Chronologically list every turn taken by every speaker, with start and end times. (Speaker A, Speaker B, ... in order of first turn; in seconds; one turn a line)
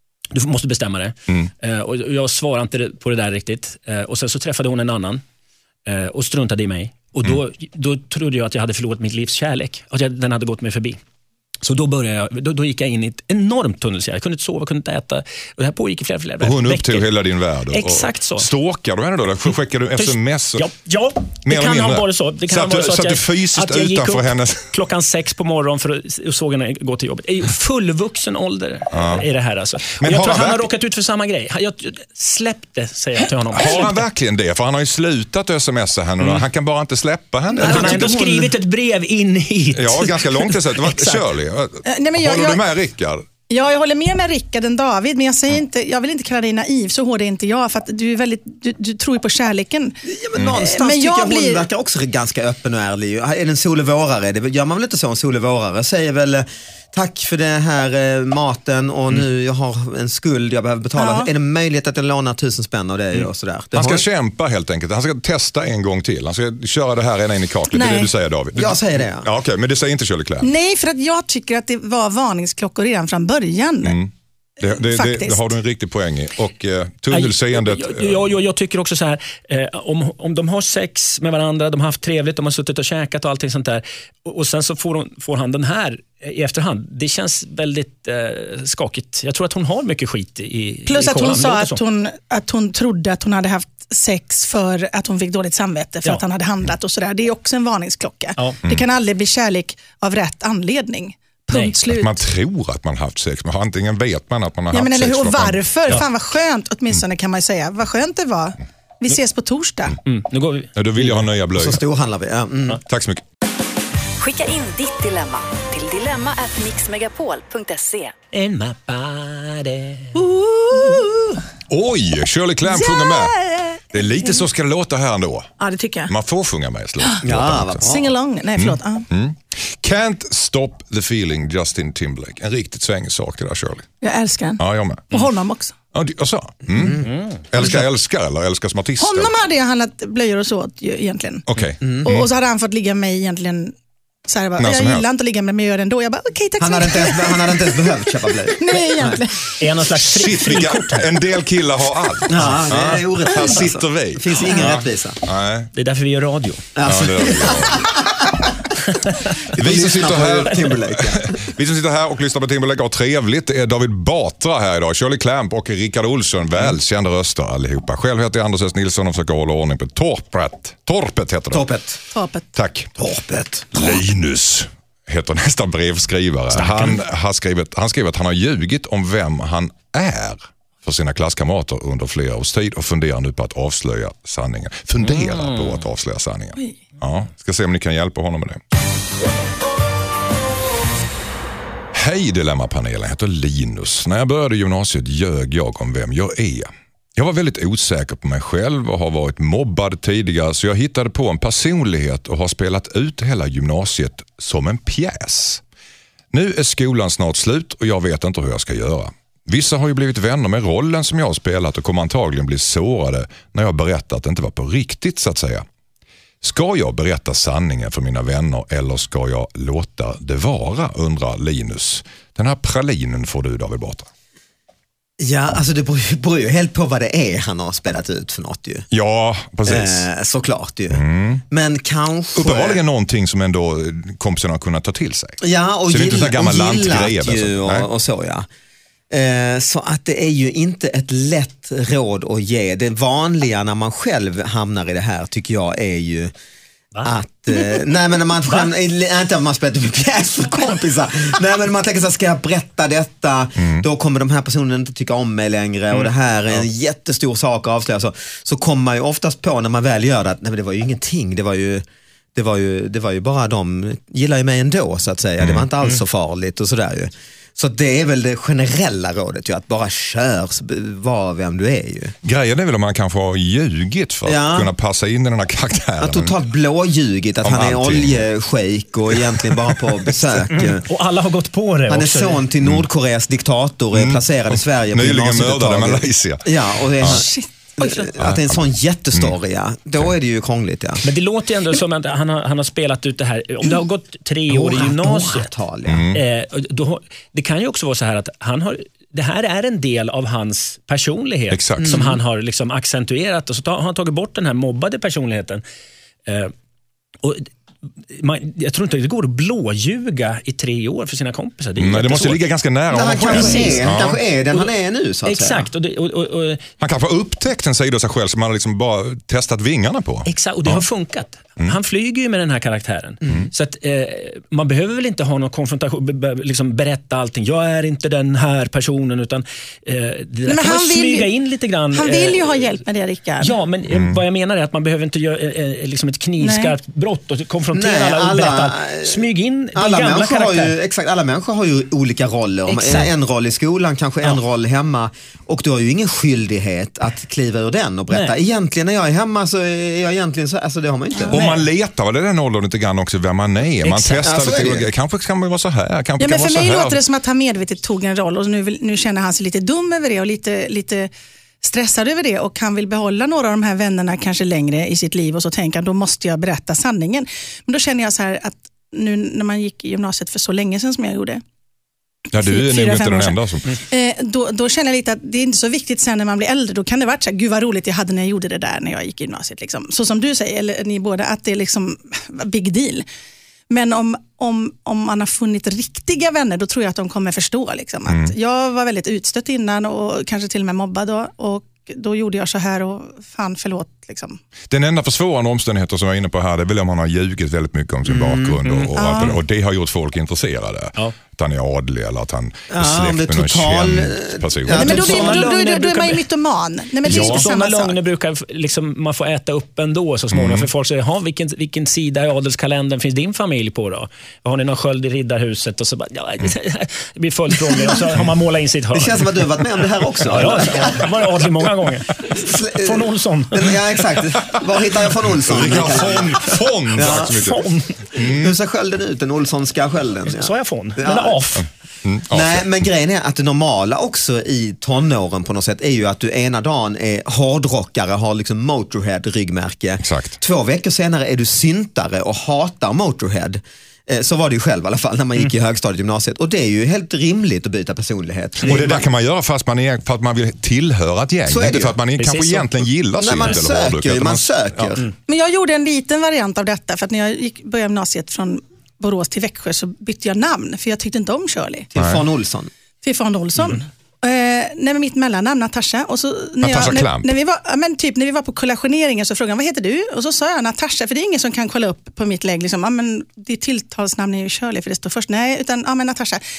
Speaker A: 0.3-5.2
Speaker A: 5.8-11.0
Speaker A: 11.6-17.1
Speaker B: 16.4-20.7
Speaker A: 17.7-18.5
Speaker A: 20.0-34.0
Speaker B: 21.4-24.7
Speaker B: 28.9-29.2
Speaker B: 30.0-30.7
Speaker B: 33.5-38.1
Speaker C: 37.5-38.5
Speaker A: 37.6-41.2
Speaker B: 39.7-43.2
Speaker D: 41.8-42.6
Speaker D: 43.5-50.0
Speaker C: 50.0-64.0
Speaker D: 50.5-51.6
Speaker D: 61.0-61.3
Speaker B: 63.7-70.5
Speaker D: 67.7-68.1
Speaker C: 68.5-69.3
Speaker D: 70.4-74.0
Speaker B: 73.8-78.3
Speaker D: 74.6-75.5
Speaker A: 77.1-91.8
Speaker D: 90.9-102.2
Speaker B: 101.9-106.0
Speaker D: 104.7-110.0
Speaker A: 110.0-111.2
Speaker B: 110.7-111.8
Speaker C: 111.5-112.8
Speaker B: 112.8-113.2
Speaker E: 114.2-118.1
Speaker A: 118.3-120.2
Speaker D: 120.1-121.4
Speaker B: 121.7-123.3
Speaker D: 122.6-124.4
Speaker B: 123.9-125.5
Speaker D: 125.6-126.1
Speaker B: 126.1-127.9
Speaker C: 127.2-128.1
Speaker D: 127.8-129.1
Speaker B: 128.6-133.9
Speaker D: 134.0-135.7
Speaker B: 134.6-135.2
Speaker B: 135.9-139.3
Speaker C: 136.7-137.1
Speaker D: 139.0-141.5
Speaker B: 141.5-142.3
Speaker C: 141.8-142.1
Speaker D: 142.0-143.7
Speaker D: 144.3-147.9
Speaker B: 144.6-145.1
Speaker C: 146.6-149.2
Speaker D: 148.5-149.4
Speaker A: 149.6-151.1
Speaker B: 149.9-155.7
Speaker C: 152.3-155.2
Speaker A: 155.7-156.7
Speaker C: 156.7-158.7
Speaker B: 156.8-157.9
Speaker B: 159.5-171.7
Speaker C: 159.5-161.4
Speaker C: 171.5-172.0
Speaker D: 172.1-172.5
Speaker B: 172.5-172.9
Speaker C: 173.0-174.0
Speaker B: 173.7-188.6
Speaker A: 176.6-176.9
Speaker A: 185.1-185.7
Speaker B: 191.9-205.6
Speaker B: 206.3-215.6
Speaker B: 216.4-224.1
Speaker C: 225.2-228.8
Speaker B: 228.9-230.1
Speaker C: 229.7-232.8
Speaker B: 230.9-231.4
Speaker B: 232.3-237.9
Speaker C: 235.4-238.4
Speaker C: 239.1-246.3
Speaker C: 247.0-261.8
Speaker B: 253.6-253.8
Speaker C: 262.3-272.1
Speaker B: 265.4-265.6
Speaker B: 272.2-276.3
Speaker C: 274.2-274.7
Speaker C: 276.0-280.9
Speaker B: 277.4-278.3
Speaker B: 279.1-279.8
Speaker A: 280.5-282.4
Speaker C: 281.9-291.0
Speaker B: 283.9-287.2
Speaker D: 287.0-288.1
Speaker B: 288.2-289.3
Speaker A: 291.0-295.5
Speaker C: 294.5-296.1
Speaker B: 295.9-296.2
Speaker A: 296.1-305.6
Speaker B: 301.5-301.9
Speaker C: 301.8-302.2
Speaker A: 306.2-306.5
Speaker A: 308.1-312.5
Speaker B: 311.8-314.2
Speaker C: 312.9-315.7
Speaker A: 313.0-313.9
Speaker A: 315.2-316.6
Speaker B: 316.8-320.8
Speaker A: 320.2-332.8
Speaker B: 323.2-323.5
Speaker D: 330.5-331.3
Speaker D: 331.9-333.6
Speaker A: 333.4-340.7
Speaker B: 333.9-334.2
Speaker D: 336.4-336.8
Speaker C: 337.7-339.2
Speaker C: 339.7-351.4
Speaker A: 342.7-343.1
Speaker A: 348.1-348.3
Speaker A: 351.3-351.6
Speaker B: 351.3-357.0
Speaker A: 353.8-354.3
Speaker C: 354.2-354.9
Speaker D: 356.2-361.1
Speaker D: 361.6-371.4
Speaker B: 372.3-373.7
Speaker D: 372.4-383.0
Speaker D: 383.7-394.4
Speaker B: 388.1-388.3
Speaker B: 394.7-405.0
Speaker C: 398.1-398.6
Speaker D: 398.9-399.4
Speaker C: 402.7-405.5
Speaker A: 404.7-406.2
Speaker D: 404.7-407.9
Speaker A: 407.0-419.4
Speaker B: 407.1-407.4
Speaker B: 410.3-410.7
Speaker C: 418.9-421.4
Speaker A: 420.2-423.8
Speaker C: 422.3-427.4
Speaker B: 425.3-428.5
Speaker A: 427.0-428.0
Speaker C: 428.1-431.4
Speaker A: 430.3-431.6
Speaker B: 432.0-432.6
Speaker C: 432.3-449.1
Speaker B: 440.0-440.4
Speaker B: 448.6-455.0
Speaker C: 451.5-452.0
Speaker A: 452.2-452.8
Speaker C: 453.2-455.1
Speaker D: 455.3-461.9
Speaker C: 461.9-462.7
Speaker B: 461.9-462.2
Speaker D: 463.0-476.4
Speaker B: 466.6-467.3